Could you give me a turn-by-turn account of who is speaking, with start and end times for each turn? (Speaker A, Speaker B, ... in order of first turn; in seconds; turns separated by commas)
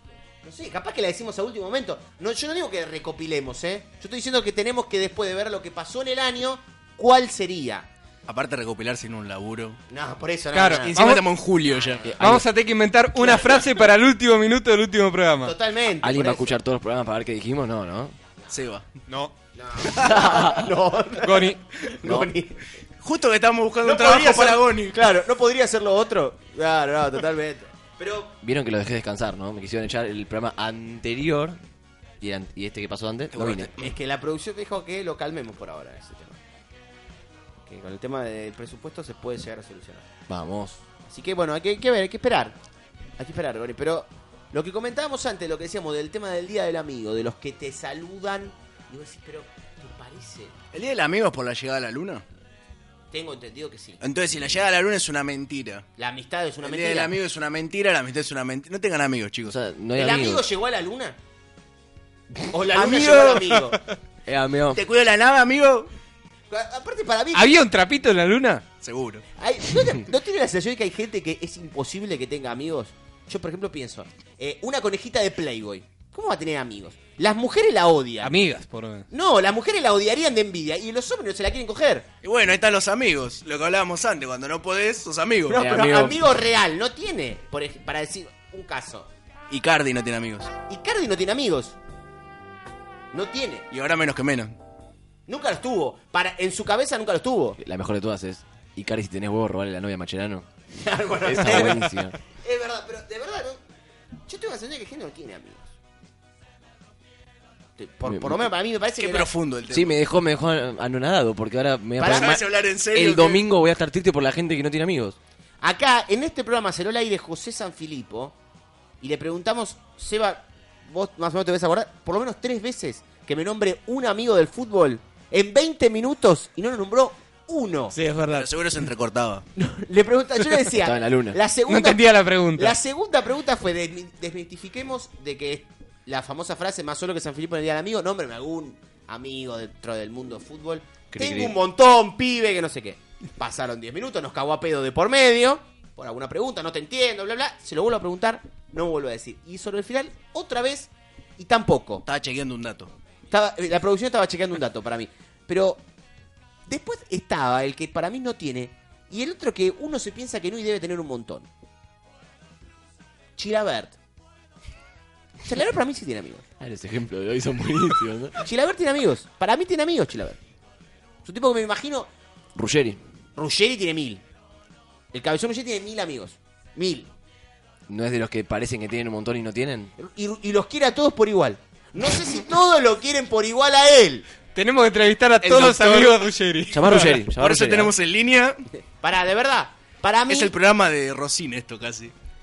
Speaker A: 0.4-7.9, Speaker B: 8.3-9.8, Speaker A: 9.9-11.0, Speaker C: 10.5-11.2, Speaker B: 10.8-12.0, Speaker A: 11.7-12.1, Speaker D: 12.0-12.4, Speaker C: 12.2-15.5, Speaker A: 15.4-16.6, Speaker D: 16.0-18.1, Speaker B: 18.5-18.8, Speaker C: 19.1-19.3, Speaker A: 19.5-22.6, Speaker D: 20.2-20.6, Speaker C: 21.2-21.6, Speaker B: 23.0-24.9, Speaker A: 23.8-28.3, Speaker D: 28.4-31.6, Speaker D: 32.2-33.7, Speaker B: 33.3-33.9, Speaker A: 33.8-36.4, Speaker A: 37.7-40.0, Speaker D: 40.3-40.8, Speaker A: 41.0-42.5, Speaker A: 43.2-50.5, Speaker B: 50.7-52.2, Speaker A: 53.1-54.0, Speaker B: 54.0-55.8, Speaker A: 56.0-57.1, Speaker B: 56.6-59.5, Speaker D: 59.5-60.4, Speaker A: 60.0-61.1, Speaker A: 62.5-63.8, Speaker B: 62.7-63.5, Speaker D: 64.2-64.8, Speaker B: 64.7-65.9, Speaker A: 66.5-67.6, Speaker C: 67.3-68.6, Speaker B: 68.8-69.2, Speaker A: 69.4-78.3, Speaker C: 78.2-79.1, Speaker A: 79.1-82.0, Speaker B: 82.2-85.6, Speaker A: 85.5-89.1, Speaker D: 85.5-86.2, Speaker B: 89.5-90.5, Speaker A: 90.7-91.8, Speaker A: 93.1-93.6, Speaker B: 93.7-94.5, Speaker A: 95.3-97.6, Speaker D: 97.6-100.5, Speaker A: 100.8-103.6, Speaker D: 101.2-102.1, Speaker A: 104.3-105.7, Speaker A: 107.8-109.3, Speaker D: 108.0-108.5, Speaker B: 109.0-110.0, Speaker D: 109.7-115.2, Speaker A: 112.0-112.4, Speaker B: 112.0-113.4, Speaker A: 115.6-118.3, Speaker A: 119.0-128.0, Speaker C: 127.9-128.5, Speaker B: 128.3-129.4, Speaker A: 129.6-152.0, Speaker D: 130.8-131.4, Speaker C: 131.7-132.8, Speaker D: 141.1-141.6, Speaker B: 152.1-152.9, Speaker A: 153.3-155.8, Speaker A: 156.7-161.5, Speaker A: 163.4-163.9, Speaker A: 165.4-166.4, Speaker D: 166.6-168.4, Speaker A: 168.4-170.4, Speaker A: 171.2-172.1, Speaker D: 172.6-173.0, Speaker A: 173.4-174.2, Speaker A: 175.1-177.1, Speaker D: 177.9-179.9, Speaker A: 180.0-184.2, Speaker C: 184.5-187.1, Speaker B: 185.4-186.2, Speaker D: 186.7-187.9, Speaker B: 186.9-188.6, Speaker A: 189.0-190.5, Speaker B: 190.3-192.1